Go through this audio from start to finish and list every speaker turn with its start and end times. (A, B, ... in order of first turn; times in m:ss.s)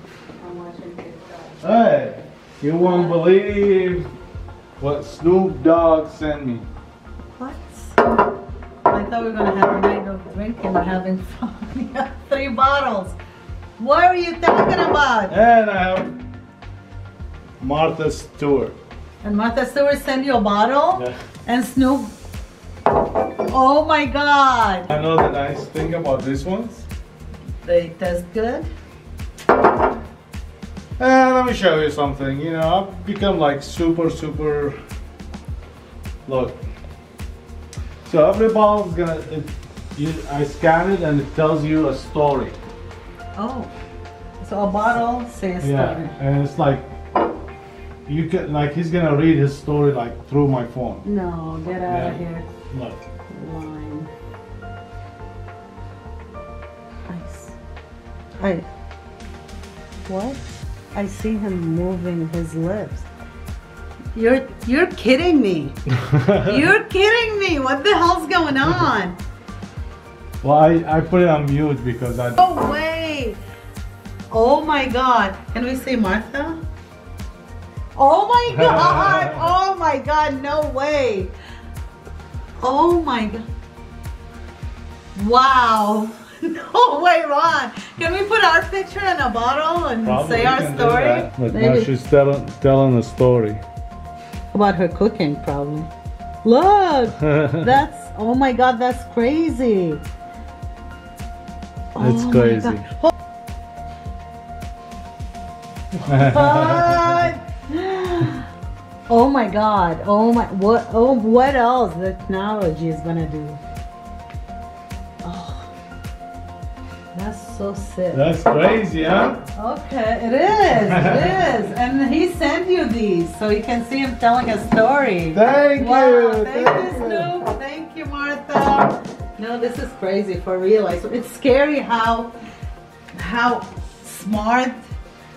0:00.4-0:01.7 A
0:01.6-0:04.1 B
0:02.8-0:03.2 A
0:04.8-0:06.7 B
0:07.4-0:08.0 A
0:08.9-0:13.2 A
0:13.8-0:15.4 A
0:15.3-0:16.1 B
0:17.6-0:18.8 B
0:19.2-0:22.1 A
0:23.5-0:24.9 A
0:24.9-0:26.8 B
0:27.6-0:28.7 A
0:31.0-0:34.8 B
0:36.3-0:36.6 B
0:38.0-0:42.6 B
0:43.4-0:43.7 A
0:44.4-0:46.1 A
0:45.6-0:46.9 B
0:48.1-0:51.0 B
0:51.0-0:52.5 A
0:51.9-0:53.0 B
0:53.3-0:54.1 A
0:57.1-0:57.5 A
0:58.4-0:58.7 A
1:00.1-1:00.4 A
1:00.9-1:03.1 A
1:04.1-1:05.8 A
1:06.1-1:06.6 B
1:06.4-1:09.2 A
1:10.4-1:12.4 B
1:12.4-1:13.4 A
1:14.3-1:16.6 A
1:18.0-1:21.3 A
1:18.5-1:19.4 B
1:22.6-1:23.5 A
1:25.2-1:31.9 A
1:30.0-1:33.6 B
1:34.5-1:35.9 A
1:36.4-1:40.0 A
1:37.3-1:37.6 B
1:42.0-1:43.1 A
1:42.0-1:42.8 B
1:46.1-1:46.9 B
1:46.1-1:48.5 A
1:49.1-1:53.6 A
1:55.2-1:55.7 A
1:57.1-1:58.3 A
1:58.1-1:59.4 B
1:59.6-2:12.3 A
2:00.8-2:01.4 B
2:05.3-2:07.3 B
2:13.1-2:14.8 A